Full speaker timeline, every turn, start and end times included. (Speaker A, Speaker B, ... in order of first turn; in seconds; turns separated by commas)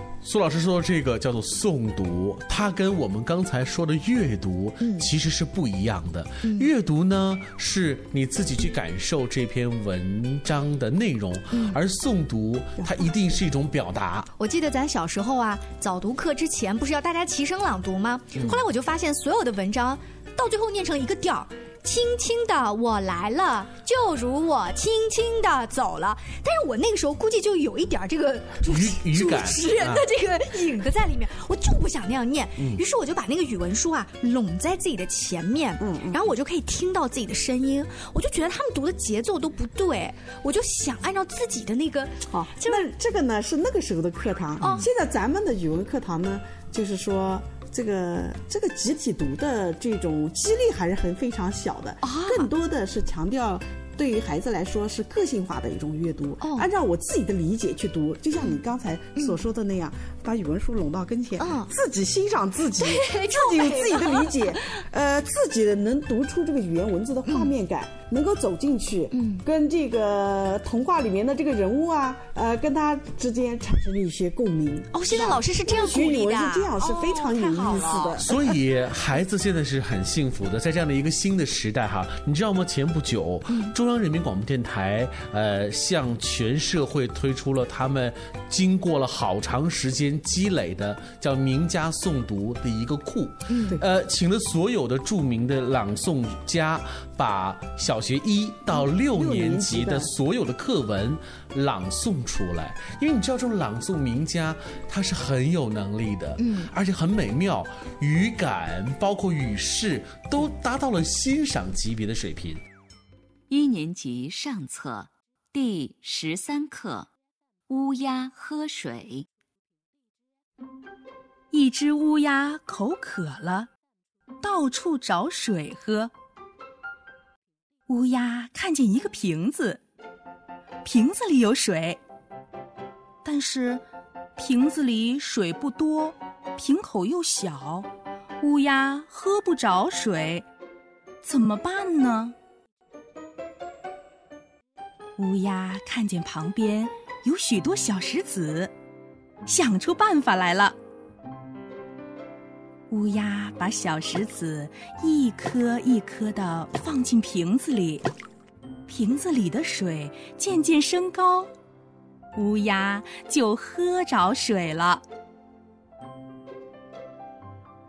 Speaker A: 0.2-14.3, Speaker B: 4.8-5.1, Speaker B: 6.4-6.7, Speaker B: 11.5-11.8, Speaker C: 12.8-13.3, Speaker B: 14.4-42.9, Speaker A: 28.6-30.1, Speaker C: 35.8-36.2, Speaker C: 42.3-78.3, Speaker B: 44.6-44.9, Speaker B: 52.0-52.5, Speaker B: 56.4-56.7, Speaker B: 61.4-61.7, Speaker B: 62.8-64.6, Speaker B: 67.3-67.5, Speaker B: 69.1-69.4, Speaker B: 74.9-78.2, Speaker A: 78.2-112.6, Speaker B: 93.5-93.8, Speaker C: 98.7-100.1, Speaker B: 106.4-106.7, Speaker D: 113.5-117.1, Speaker D: 117.7-119.2, Speaker E: 121.5-123.7, Speaker E: 124.4-126.1, Speaker E: 127.9-129.8, Speaker E: 130.8-132.0, Speaker E: 133.2-133.8, Speaker E: 134.4-137.9, Speaker E: 138.4-140.4, Speaker E: 141.2-142.3, Speaker E: 145.2-148.7, Speaker E: 149.5-150.8, Speaker E: 152.9-158.0, Speaker E: 158.9-161.5, Speaker E: 162.3-165.0